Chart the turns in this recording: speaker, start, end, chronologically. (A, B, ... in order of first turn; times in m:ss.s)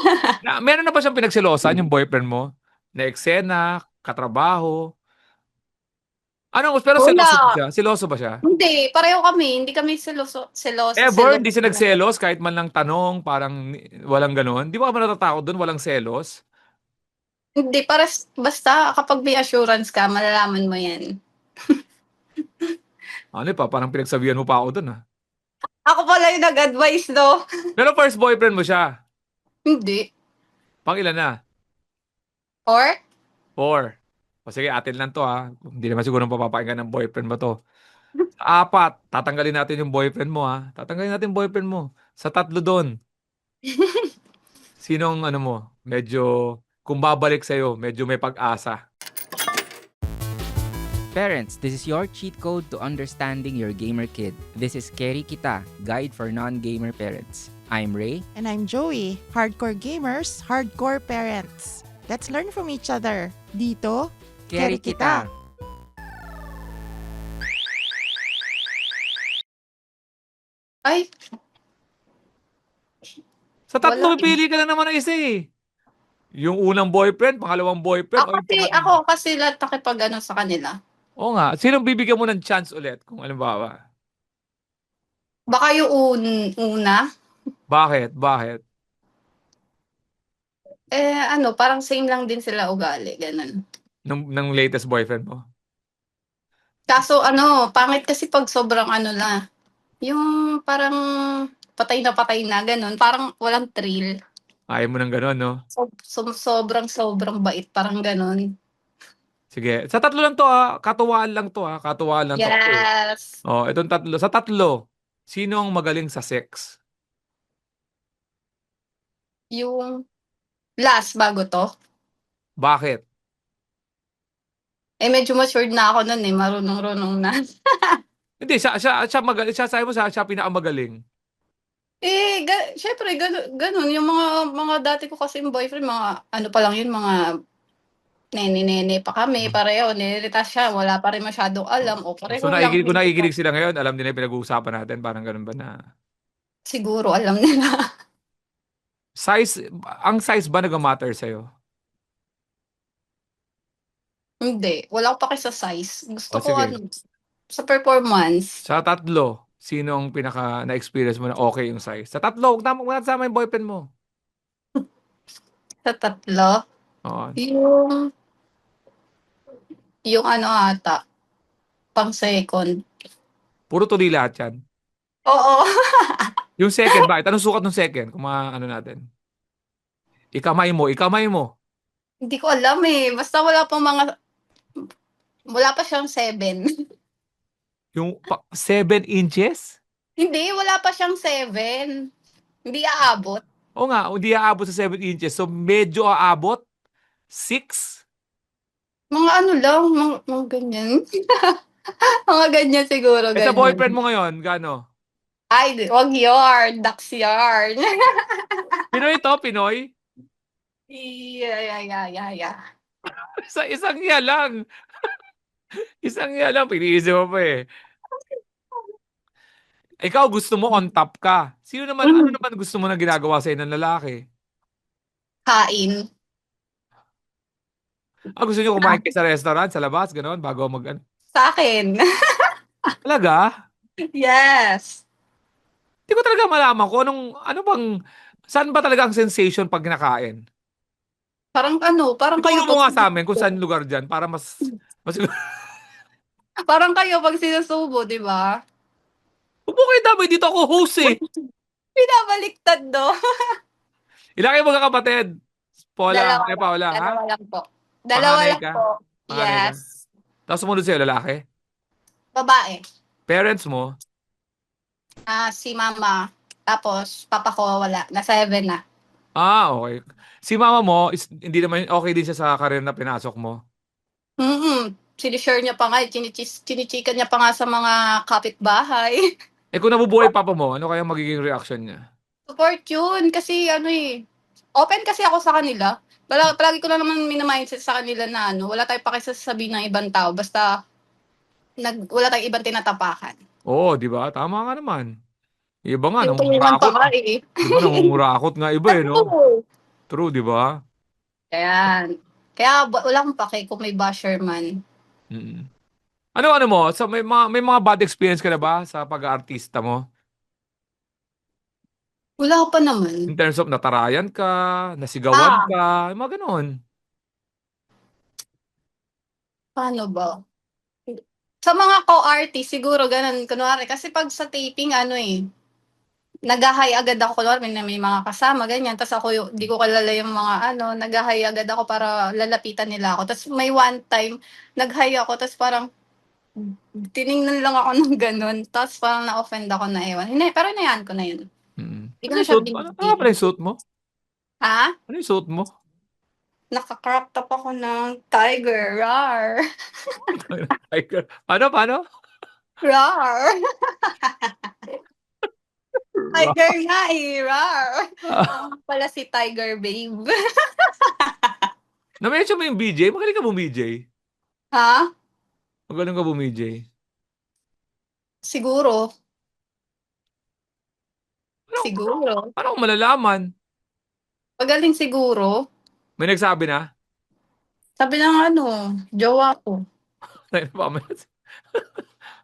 0:00.4-0:04.8 A
0:06.6-0:08.4 A
0:07.0-0:07.6 B
0:08.5-0:12.0 B
0:11.0-0:13.6 A
0:14.1-0:16.4 A
0:17.6-0:21.0 B
0:23.4-0:25.0 A
0:25.9-0:27.3 B
0:27.8-0:28.8 A
0:29.7-0:30.0 B
0:30.9-0:31.3 A
0:33.6-0:33.9 A
0:34.5-0:37.5 A
0:38.4-0:42.9 A
0:43.8-0:44.1 B
0:44.8-0:46.3 A
0:46.8-0:48.8 A
0:51.1-0:58.2 C
0:58.4-1:05.2 D
1:04.5-1:05.3 C
1:13.7-1:15.4 A
1:13.8-1:14.3 B
1:16.4-1:18.9 A
1:18.2-1:20.7 B
1:21.2-1:23.8 A
1:25.5-1:27.0 B
1:27.7-1:28.6 A
1:31.0-1:33.5 B
1:34.1-1:35.4 A
1:36.9-1:39.4 B
1:40.1-1:41.0 B
1:41.8-1:44.1 B
1:44.7-1:45.6 A
1:45.8-1:48.4 B
1:49.5-1:52.8 A
1:52.4-1:53.3 B
1:53.5-1:54.7 A
1:55.3-1:56.7 A
1:59.6-1:59.9 B
2:00.8-2:01.6 B
2:02.6-2:03.0 A
2:05.0-2:07.3 B
2:08.4-2:11.0 A
2:12.1-2:17.1 B
2:18.4-2:23.3 B
2:22.3-2:25.7 A
2:26.7-2:27.8 B
2:29.2-2:31.4 A
2:34.4-2:36.8 B
2:36.3-2:36.7 A
2:37.6-2:38.6 B
2:38.7-2:43.8 A
2:45.8-2:46.6 B
2:47.1-2:47.4 A
2:47.4-2:48.0 B
2:50.1-2:51.0 B
2:52.0-2:52.7 B
2:53.7-2:54.5 A
2:55.3-2:55.6 B
2:56.6-2:59.0 A
3:00.4-3:01.5 A
3:02.3-3:04.0 B
3:05.5-3:06.6 B
3:08.0-3:09.7 A
3:10.2-3:11.9 B
3:12.7-3:13.4 B
3:13.8-3:16.6 A
3:17.3-3:18.0 A
3:19.2-3:20.9 B
3:22.3-3:23.9 B
3:23.4-3:24.8 A
3:25.5-3:27.8 B
3:28.9-3:29.8 A
3:30.9-3:32.6 B
3:33.4-3:35.1 A
3:36.0-3:37.6 A
3:40.0-3:44.2 A
3:42.1-3:42.3 B
3:45.5-3:46.0 B
3:48.4-3:51.0 A
3:51.4-3:52.0 B
3:53.0-3:53.4 A
3:54.2-3:55.0 B
3:56.1-3:57.8 A
3:58.5-4:00.4 A
4:01.6-4:03.1 B
4:02.4-4:04.5 A
4:05.0-4:05.3 A
4:06.7-4:08.5 B
4:09.7-4:11.2 A
4:12.0-4:13.1 B
4:14.4-4:15.3 A
4:15.9-4:17.1 A
4:16.1-4:19.8 B
4:18.2-4:18.8 A
4:19.3-4:19.8 A
4:20.5-4:21.4 A
4:22.4-4:22.8 B
4:23.3-4:23.9 A
4:25.3-4:26.2 B
4:26.7-4:28.8 B
4:29.4-4:33.6 A
4:34.4-4:39.2 B
4:39.7-4:42.0 A
4:42.5-4:44.0 B
4:44.8-4:50.7 B
4:51.8-4:53.4 B
4:53.7-4:55.1 A
4:55.9-4:57.1 A
4:56.2-4:58.1 B
4:57.6-4:59.3 A
4:58.9-4:59.6 B
5:00.1-5:00.7 A
5:01.5-5:04.7 B
5:05.3-5:05.6 A
5:06.4-5:10.0 A
5:12.4-5:13.3 B
5:13.3-5:16.7 A
5:15.4-5:15.7 B
5:19.8-5:20.3 B
5:21.7-5:25.4 B
5:26.5-5:35.8 B
5:36.6-5:41.5 B
5:41.8-5:43.8 A
5:42.2-5:43.4 B
5:44.6-5:44.9 B
5:45.1-5:45.7 A
5:46.7-5:49.6 B
5:50.4-5:52.0 A
5:52.8-5:55.0 B
5:56.2-5:56.6 A
5:56.3-6:00.3 B
6:01.2-6:01.7 B
6:02.2-6:04.0 A
6:04.8-6:05.0 B
6:05.9-6:06.8 A
6:08.5-6:09.0 B
6:11.7-6:13.5 A
6:11.8-6:12.5 B
6:14.6-6:15.5 B
6:16.2-6:16.8 A
6:18.0-6:19.8 B
6:20.5-6:21.8 A